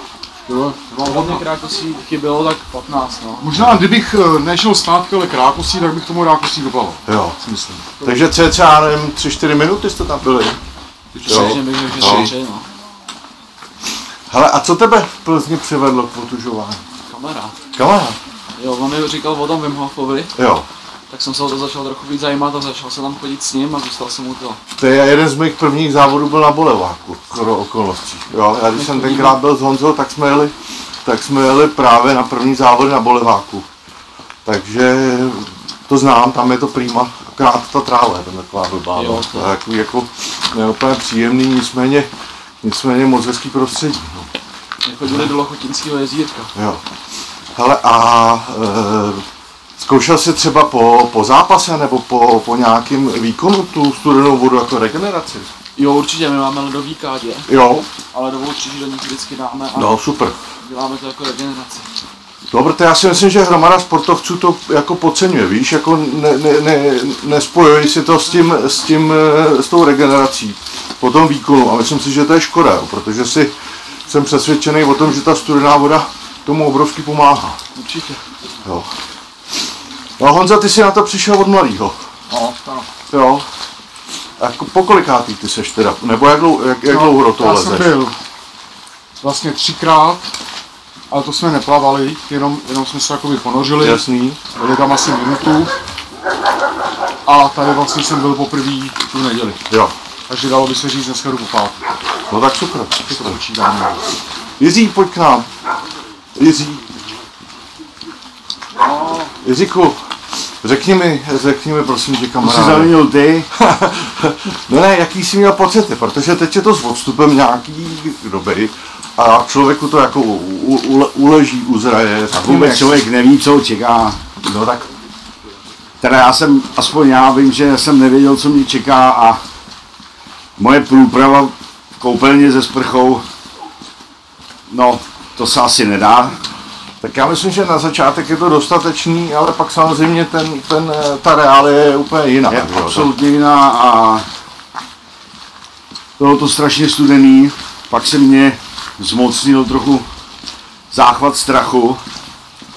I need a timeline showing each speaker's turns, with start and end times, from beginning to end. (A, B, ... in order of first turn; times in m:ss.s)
0:00.5-0:01.4 A
0:01.0-0:03.5 B
0:03.4-0:08.1 A
0:03.6-0:03.9 C
0:07.1-0:07.4 C
0:08.0-0:10.6 C
0:11.2-0:11.5 A
0:11.2-0:12.7 B
0:11.3-0:12.3 C
0:14.3-0:16.8 C
0:17.1-0:17.6 B
0:17.7-0:18.2 C
0:18.6-0:20.4 B
0:20.4-0:20.7 C
0:21.1-0:24.6 B
0:24.7-0:33.7 C
0:28.7-0:29.4 B
0:34.4-0:42.1 C
0:38.9-0:39.5 B
0:42.6-0:44.3 C
0:44.8-0:46.5 B
0:46.6-0:46.8 C
0:47.6-0:49.2 C
0:49.8-0:55.5 C
0:55.8-0:57.5 B
0:57.5-0:57.9 C
0:58.0-1:00.0 B
0:59.7-1:00.4 C
1:00.6-1:02.0 B
1:02.5-1:13.5 C
1:14.1-1:17.6 C
1:17.8-1:18.2 A
1:18.6-1:18.9 C
1:20.2-1:22.0 C
1:22.3-1:22.8 A
1:23.1-1:23.5 C
1:24.4-1:28.0 C
1:26.8-1:28.2 A
1:29.2-1:30.3 A
1:31.1-1:35.7 A
1:33.7-1:34.4 C
1:37.3-1:39.6 A
1:40.3-1:41.8 A
1:42.3-1:43.4 C
1:43.1-1:44.0 A
1:44.6-1:45.5 C
1:46.4-1:46.9 C
1:49.4-1:50.0 C
1:50.6-1:53.0 C
1:52.4-1:53.5 D
1:53.6-2:03.0 C
2:02.4-2:04.2 D
2:04.4-2:04.9 C
2:06.0-2:09.4 D
2:10.6-2:13.2 D
2:14.7-2:16.4 D
2:17.0-2:23.2 C
2:22.5-2:24.2 D
2:26.2-2:30.1 D
2:30.9-2:32.0 D